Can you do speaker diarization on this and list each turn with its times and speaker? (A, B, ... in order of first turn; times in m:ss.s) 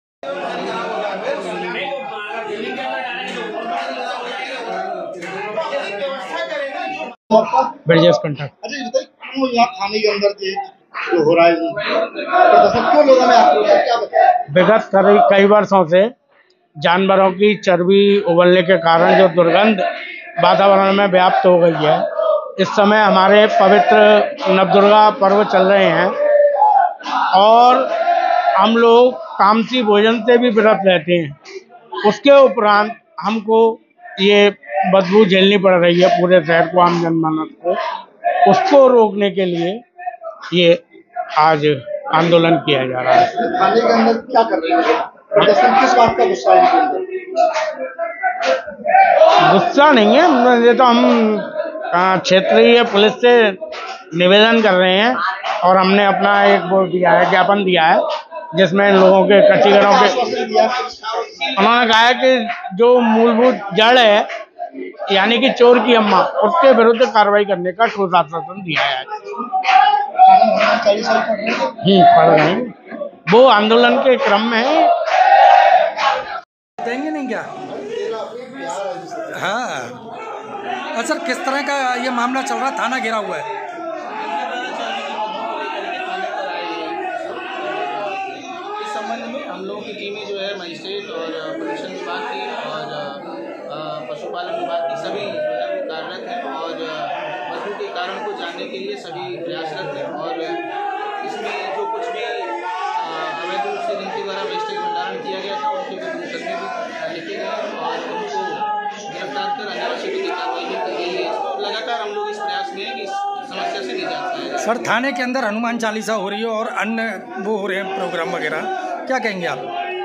0:07.3-0:07.7 A
0:07.8-0:08.5 B
0:08.6-0:14.4 A
0:14.5-0:16.1 B
0:16.8-0:19.8 B
0:20.4-0:22.0 B
0:22.6-0:26.1 B
0:27.3-0:27.9 B
0:28.6-0:31.4 B
0:32.0-0:37.8 B
0:38.4-0:39.8 B
0:40.5-0:40.8 B
0:41.4-0:43.3 B
0:43.2-0:47.2 A
0:49.5-0:53.6 B
0:54.2-0:58.0 B
0:58.5-1:00.2 B
0:59.6-1:01.5 A
1:01.6-1:04.3 B
1:05.1-1:09.1 B
1:10.3-1:11.8 A
1:11.8-1:12.7 B
1:13.3-1:14.9 B
1:16.8-1:17.5 C
1:17.9-1:19.2 A
1:19.3-1:20.0 C
1:20.9-1:23.5 C
1:24.2-1:40.6 D
1:41.2-1:48.6 D
1:49.1-1:54.9 D
1:54.6-1:59.6 C